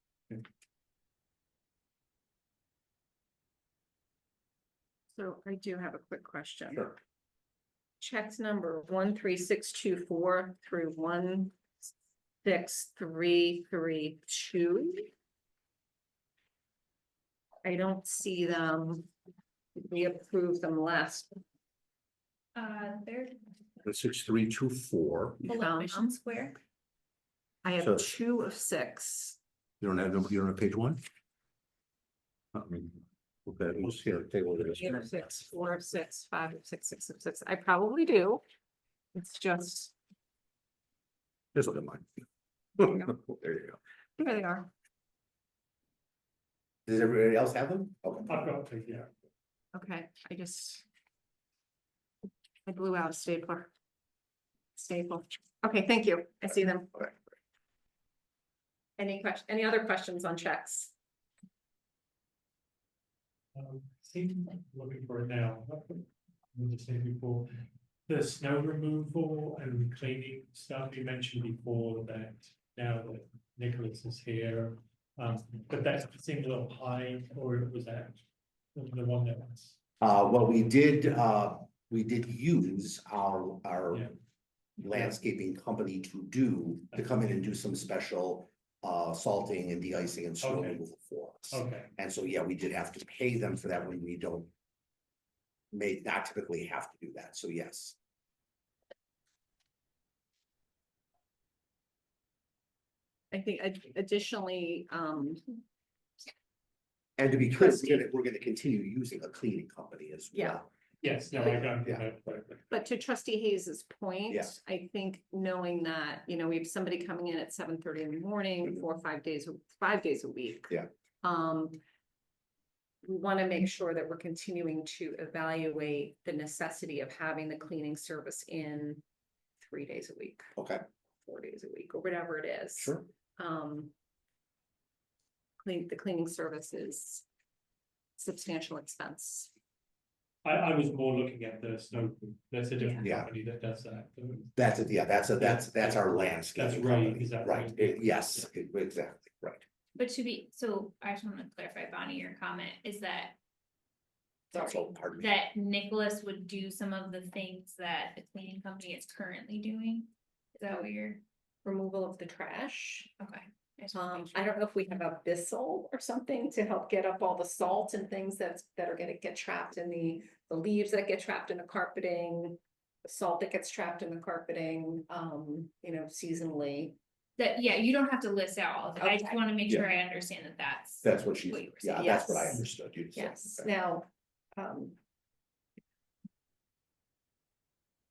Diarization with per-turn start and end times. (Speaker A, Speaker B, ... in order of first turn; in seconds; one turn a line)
Speaker A: 5.2-7.0
Speaker A: 8.0-11.6
Speaker A: 12.4-15.1
Speaker A: 17.6-19.1
Speaker A: 19.8-21.4
Speaker B: 22.6-23.6
Speaker C: 23.8-25.6
Speaker B: 25.5-26.6
Speaker A: 25.5-26.1
Speaker A: 27.6-29.4
Speaker C: 27.8-28.1
Speaker C: 29.8-31.0
Speaker C: 32.5-35.1
Speaker A: 34.6-38.4
Speaker A: 39.1-39.9
Speaker C: 41.5-42.2
Speaker C: 42.8-43.8
Speaker A: 44.2-44.7
Speaker C: 46.9-48.3
Speaker D: 48.3-49.1
Speaker A: 49.7-50.9
Speaker A: 52.7-53.7
Speaker A: 54.8-57.1
Speaker A: 59.0-60.9
Speaker D: 63.5-67.5
Speaker D: 68.1-78.2
Speaker D: 78.8-79.8
Speaker C: 80.0-84.1
Speaker C: 84.8-94.5
Speaker D: 84.8-85.2
Speaker D: 90.4-90.8
Speaker D: 91.5-91.9
Speaker C: 95.7-98.0
Speaker A: 103.3-105.5
Speaker C: 107.2-110.7
Speaker A: 107.5-108.0
Speaker A: 110.3-110.6
Speaker D: 111.0-112.7
Speaker C: 111.7-112.0
Speaker A: 112.7-121.8
Speaker C: 114.3-114.5
Speaker A: 123.0-129.0
Speaker A: 129.6-130.5
Speaker C: 130.6-130.8
Speaker A: 131.2-133.9
Speaker C: 132.8-133.1
Speaker A: 135.6-137.2
Speaker A: 138.2-139.5
Speaker D: 140.4-144.6
Speaker B: 142.8-143.1
Speaker C: 143.0-143.3
Speaker C: 144.6-149.6
Speaker D: 145.3-148.5
Speaker B: 150.0-153.4
Speaker C: 154.5-155.3
Speaker B: 154.5-161.2
Speaker A: 161.6-163.1
Speaker B: 163.2-164.5
Speaker A: 163.9-177.0
Speaker B: 177.4-182.6
Speaker A: 179.0-179.4
Speaker C: 181.0-183.7
Speaker A: 182.0-182.6
Speaker A: 183.1-185.0